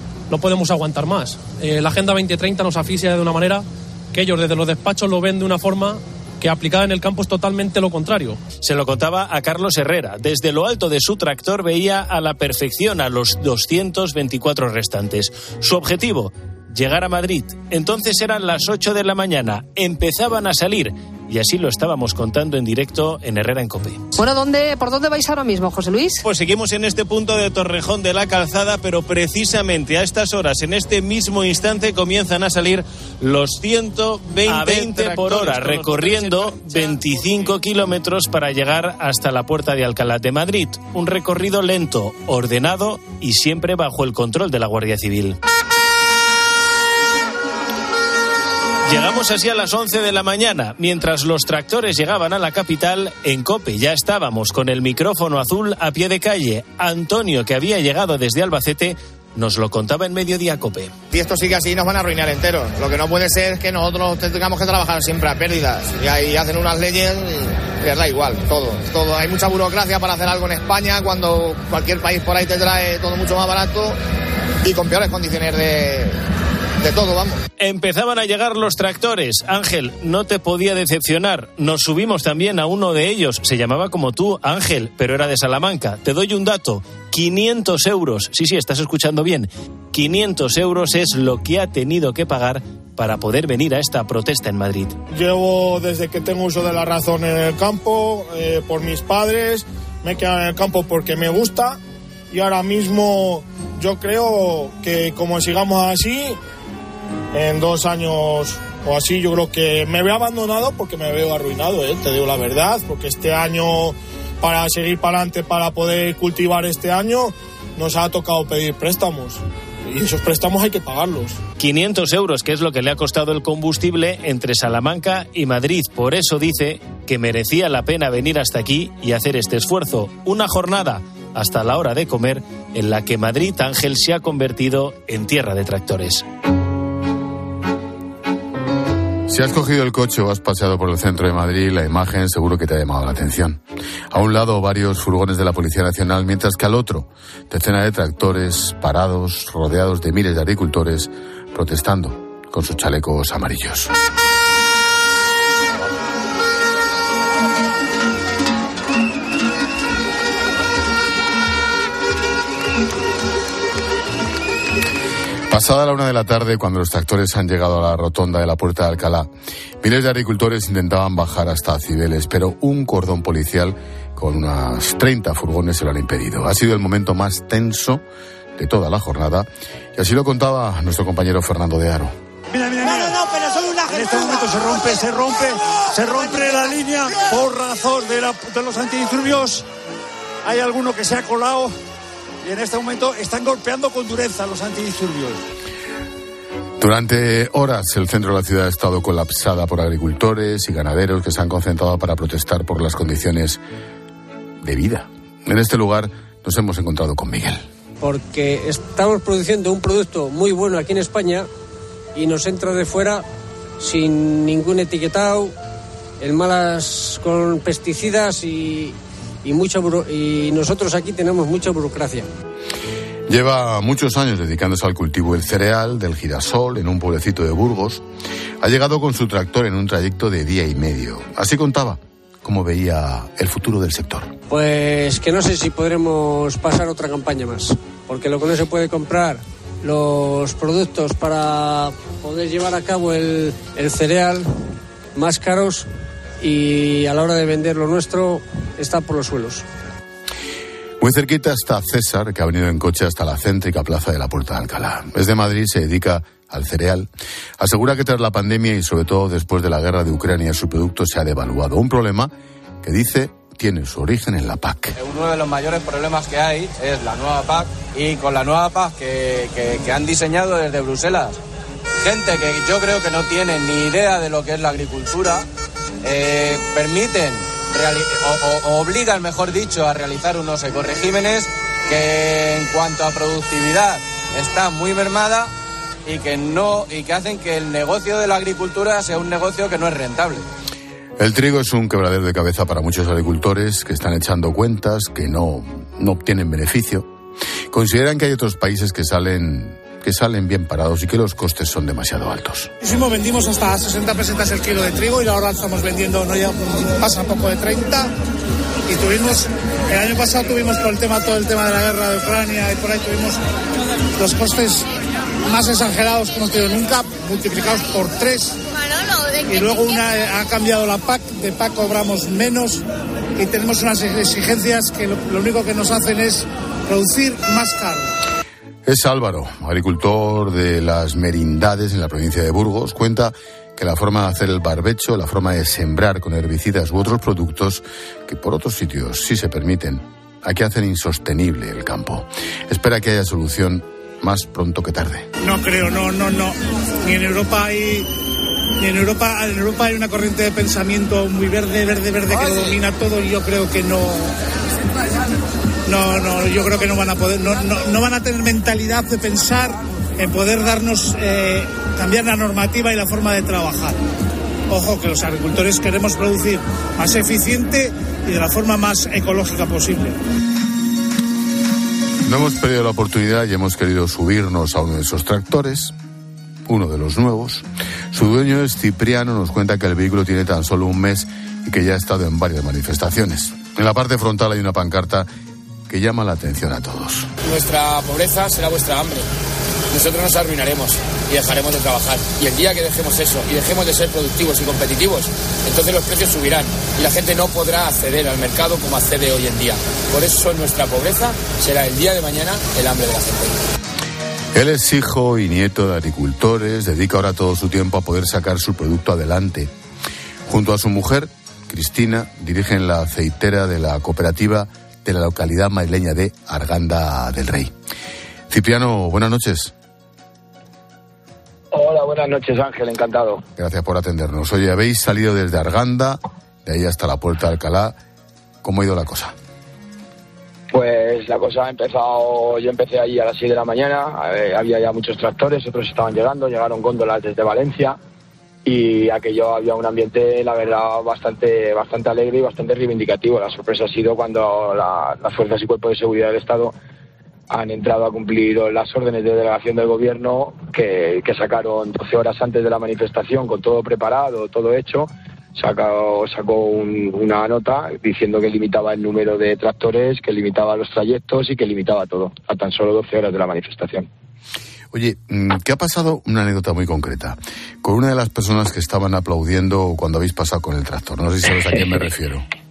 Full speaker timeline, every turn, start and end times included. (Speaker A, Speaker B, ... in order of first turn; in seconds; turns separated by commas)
Speaker A: 0.3-8.4, Speaker B: 8.6-24.0, Speaker C: 24.1-26.2, Speaker B: 26.2-45.4, Speaker B: 48.8-60.9, Speaker D: 61.1-74.0, Speaker D: 74.6-76.2, Speaker D: 76.8-77.4, Speaker B: 77.6-95.0, Speaker E: 95.1-106.4, Speaker E: 107.3-121.4, Speaker B: 121.6-136.2, Speaker F: 139.3-143.6, Speaker F: 144.1-153.9, Speaker F: 165.5-169.3, Speaker F: 169.8-178.0, Speaker F: 178.6-182.1, Speaker G: 182.5-189.6, Speaker G: 190.4-191.7, Speaker G: 192.4-195.4, Speaker F: 196.8-203.6, Speaker F: 204.6-207.6, Speaker H: 208.0-211.5, Speaker H: 212.1-213.3, Speaker H: 213.8-215.5, Speaker H: 216.2-222.3, Speaker F: 223.3-228.0, Speaker F: 228.6-234.3, Speaker H: 234.5-244.5, Speaker H: 245.1-245.9, Speaker H: 246.4-249.6, Speaker F: 251.0-257.1, Speaker F: 257.6-264.9, Speaker I: 264.9-271.4, Speaker I: 272.0-275.4, Speaker I: 276.0-285.5, Speaker I: 286.1-290.4, Speaker F: 291.2-297.1, Speaker F: 297.7-302.7, Speaker A: 302.8-308.1, Speaker A: 308.9-313.4, Speaker A: 314.2-314.9, Speaker A: 315.5-318.6, Speaker A: 319.4-322.8, Speaker A: 323.4-328.1, Speaker F: 328.9-345.3, Speaker A: 345.4-348.1, Speaker A: 348.8-354.3, Speaker A: 355.9-364.0, Speaker A: 364.7-370.2, Speaker F: 372.2-375.9, Speaker F: 376.7-385.3, Speaker F: 385.9-387.3, Speaker J: 387.4-389.2, Speaker J: 389.9-403.6, Speaker F: 404.5-409.7, Speaker F: 410.5-417.7, Speaker F: 418.5-419.7, Speaker K: 421.7-423.4, Speaker F: 423.6-428.0, Speaker F: 428.6-429.3, Speaker K: 430.7-438.0, Speaker K: 438.6-446.7, Speaker K: 447.5-464.1, Speaker F: 464.9-472.4